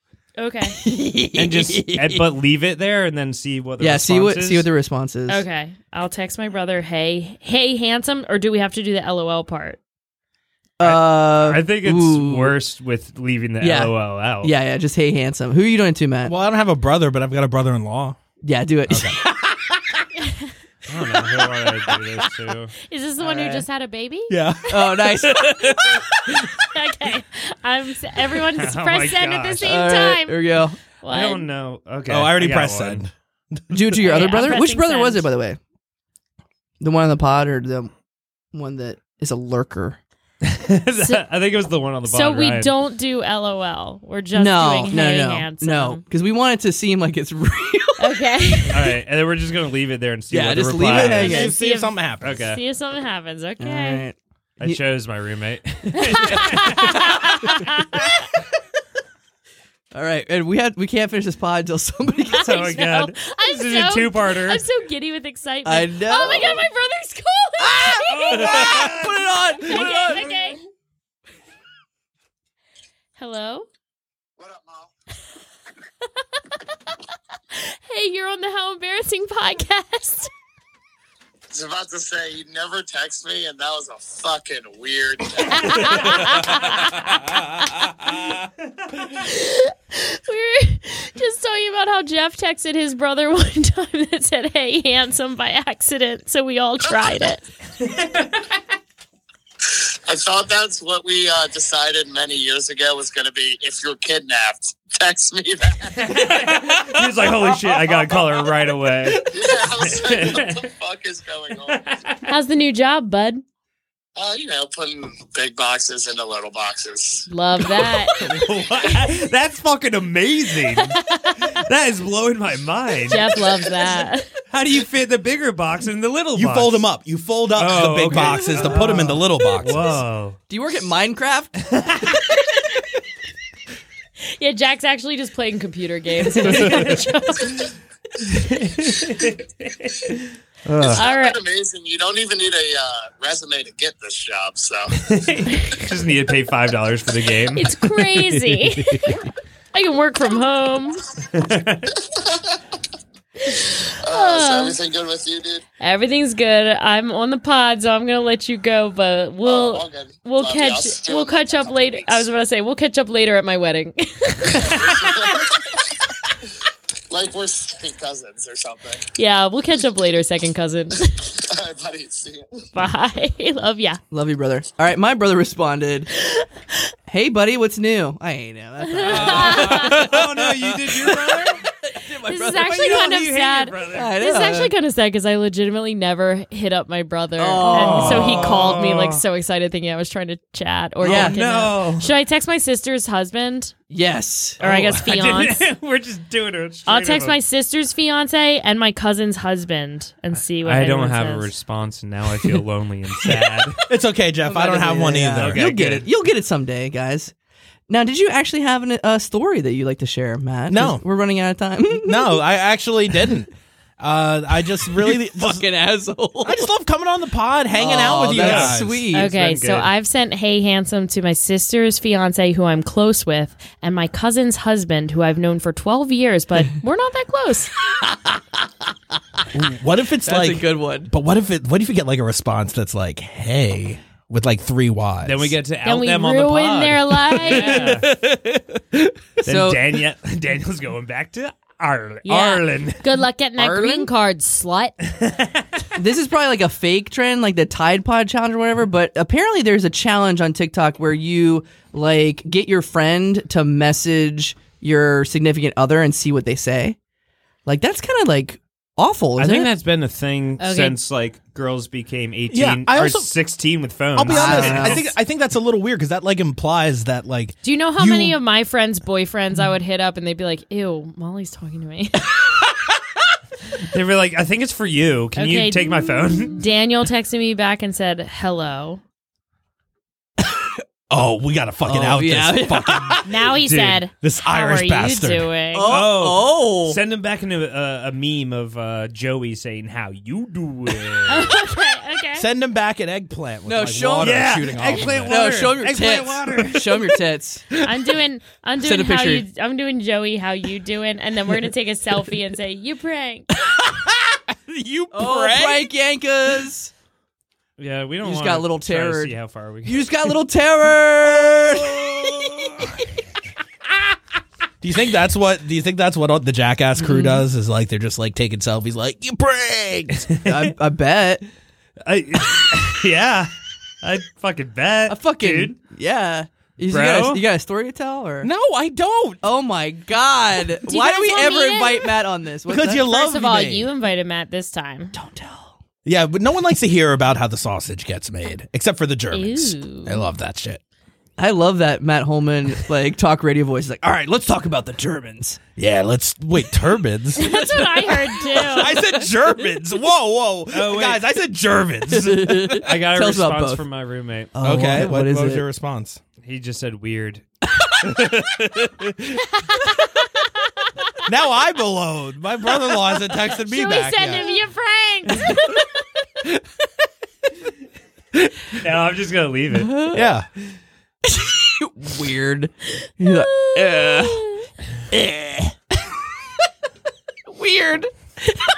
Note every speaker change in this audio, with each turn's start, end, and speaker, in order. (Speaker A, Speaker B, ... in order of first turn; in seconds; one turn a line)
Speaker A: 0.4-0.8
Speaker B: 0.7-2.3
Speaker C: 1.4-4.7
Speaker B: 3.8-5.5
Speaker A: 5.3-9.8
Speaker B: 10.8-12.6
Speaker C: 10.8-14.5
Speaker B: 13.6-16.3
Speaker D: 16.2-18.2
Speaker B: 18.4-19.2
Speaker D: 18.9-20.1
Speaker A: 20.2-20.5
Speaker C: 20.9-22.8
Speaker A: 22.9-24.4
Speaker B: 23.2-23.6
Speaker D: 24.3-26.4
Speaker B: 24.7-26.0
Speaker A: 26.6-30.4
Speaker C: 28.6-29.8
Speaker B: 29.6-30.8
Speaker A: 31.0-31.5
Speaker C: 31.1-33.0
Speaker D: 32.1-33.8
Speaker B: 33.7-35.6
Speaker A: 34.0-35.3
Speaker B: 36.8-37.9
Speaker B: 38.5-40.0
Speaker C: 40.4-42.7
Speaker A: 41.0-41.2
Speaker A: 42.1-46.0
Speaker B: 44.4-48.7
Speaker A: 48.0-49.0
Speaker C: 48.7-51.5
Speaker B: 50.3-51.5
Speaker D: 50.9-52.4
Speaker A: 51.2-54.0
Speaker C: 52.2-52.6
Speaker B: 53.6-54.8
Speaker C: 54.6-57.7
Speaker A: 56.0-58.3
Speaker B: 56.1-57.3
Speaker B: 59.9-62.7
Speaker A: 62.3-69.0
Speaker C: 62.3-64.6
Speaker B: 65.6-66.7
Speaker B: 67.6-70.4
Speaker C: 68.1-70.3
Speaker A: 69.6-70.6
Speaker A: 73.2-73.7
Speaker E: 74.4-74.9
Speaker A: 77.5-80.3
Speaker E: 81.5-86.8
Speaker A: 85.5-87.9
Speaker A: 89.0-97.4
Speaker C: 97.8-98.5
Speaker E: 99.7-106.3
Speaker C: 106.0-110.7
Speaker E: 109.2-111.8
Speaker C: 111.7-112.2
Speaker A: 112.3-113.4
Speaker E: 114.2-117.3
Speaker A: 117.3-118.3
Speaker C: 118.2-123.5
Speaker A: 120.7-121.6
Speaker A: 123.0-124.3
Speaker C: 124.5-126.8
Speaker D: 126.3-129.9
Speaker C: 127.5-130.4
Speaker B: 128.1-129.2
Speaker B: 130.5-131.7
Speaker C: 131.7-132.2
Speaker A: 134.3-137.7
Speaker C: 136.4-137.0
Speaker C: 138.2-141.0
Speaker E: 140.8-145.0
Speaker A: 140.9-141.4
Speaker C: 145.0-149.2
Speaker A: 147.6-151.1
Speaker C: 151.3-152.0
Speaker E: 152.0-152.6
Speaker A: 153.5-154.8
Speaker E: 153.7-155.6
Speaker A: 155.8-165.0
Speaker E: 159.4-162.3
Speaker E: 164.5-165.8
Speaker E: 167.1-169.1
Speaker A: 169.2-171.3
Speaker E: 171.4-172.7
Speaker A: 172.7-174.0
Speaker B: 174.1-176.1
Speaker B: 177.1-183.1
Speaker A: 178.9-180.1
Speaker C: 179.1-181.6
Speaker A: 182.2-193.7
Speaker C: 182.5-184.1
Speaker B: 183.9-184.7
Speaker B: 187.4-188.7
Speaker C: 187.7-189.2
Speaker C: 191.0-192.1
Speaker B: 191.0-191.4
Speaker B: 193.9-194.6
Speaker A: 194.6-195.6
Speaker C: 194.6-197.4
Speaker A: 196.9-201.5
Speaker C: 200.6-203.8
Speaker D: 203.9-205.7
Speaker B: 204.4-207.3
Speaker C: 205.3-206.1
Speaker B: 207.9-212.4
Speaker D: 210.7-211.0
Speaker D: 211.9-215.7
Speaker B: 214.8-216.7
Speaker D: 216.4-219.1
Speaker B: 217.7-219.3
Speaker C: 218.3-219.9
Speaker A: 219.1-227.7
Speaker B: 227.9-228.7
Speaker D: 229.5-235.6
Speaker B: 230.2-231.1
Speaker C: 235.2-238.1
Speaker A: 235.8-238.1
Speaker B: 237.5-238.6
Speaker B: 239.4-240.0
Speaker C: 239.4-243.2
Speaker A: 242.2-245.0
Speaker B: 243.6-244.1
Speaker C: 245.1-245.8
Speaker B: 245.9-257.0
Speaker B: 257.7-259.7
Speaker C: 259.4-265.1
Speaker A: 260.6-261.0
Speaker D: 262.5-263.3
Speaker D: 264.1-268.4
Speaker B: 264.3-265.1
Speaker A: 267.6-272.4
Speaker C: 273.8-276.6
Speaker A: 275.4-279.0
Speaker B: 280.4-280.7
Speaker D: 281.1-283.2
Speaker B: 281.8-283.4
Speaker A: 283.2-285.9
Speaker C: 283.6-284.0
Speaker D: 284.2-285.5
Speaker B: 285.7-287.0
Speaker C: 285.9-291.6
Speaker A: 291.3-292.5
Speaker D: 292.4-295.5
Speaker B: 293.7-297.7
Speaker C: 294.2-297.2
Speaker A: 297.8-303.5
Speaker B: 298.8-299.5
Speaker D: 303.8-305.9
Speaker B: 305.1-306.9
Speaker C: 307.8-310.1
Speaker B: 308.2-313.0
Speaker D: 312.2-312.5
Speaker D: 314.8-320.3
Speaker C: 320.3-320.7
Speaker B: 320.4-321.4
Speaker C: 322.0-323.5
Speaker C: 324.0-325.8
Speaker B: 325.1-328.5
Speaker C: 326.9-327.4
Speaker D: 328.4-329.4
Speaker B: 329.4-333.1
Speaker A: 330.9-332.1
Speaker D: 332.7-333.9
Speaker A: 333.0-335.1
Speaker B: 335.1-335.7
Speaker D: 336.1-340.8
Speaker A: 339.3-340.3
Speaker B: 341.4-345.6
Speaker D: 345.8-347.6
Speaker A: 347.4-349.0
Speaker D: 348.6-352.9
Speaker C: 350.7-351.2
Speaker B: 352.1-353.8
Speaker C: 352.8-354.5
Speaker B: 354.5-355.6
Speaker D: 354.6-356.2
Speaker C: 356.4-357.4
Speaker D: 358.0-359.4
Speaker A: 359.5-360.1
Speaker A: 360.8-361.1
Speaker D: 361.2-364.6
Speaker A: 363.3-366.1
Speaker C: 368.7-370.0
Speaker B: 369.7-370.3
Speaker D: 370.1-370.5
Speaker B: 371.2-374.5
Speaker A: 373.2-374.7
Speaker B: 375.1-375.7
Speaker B: 377.5-378.1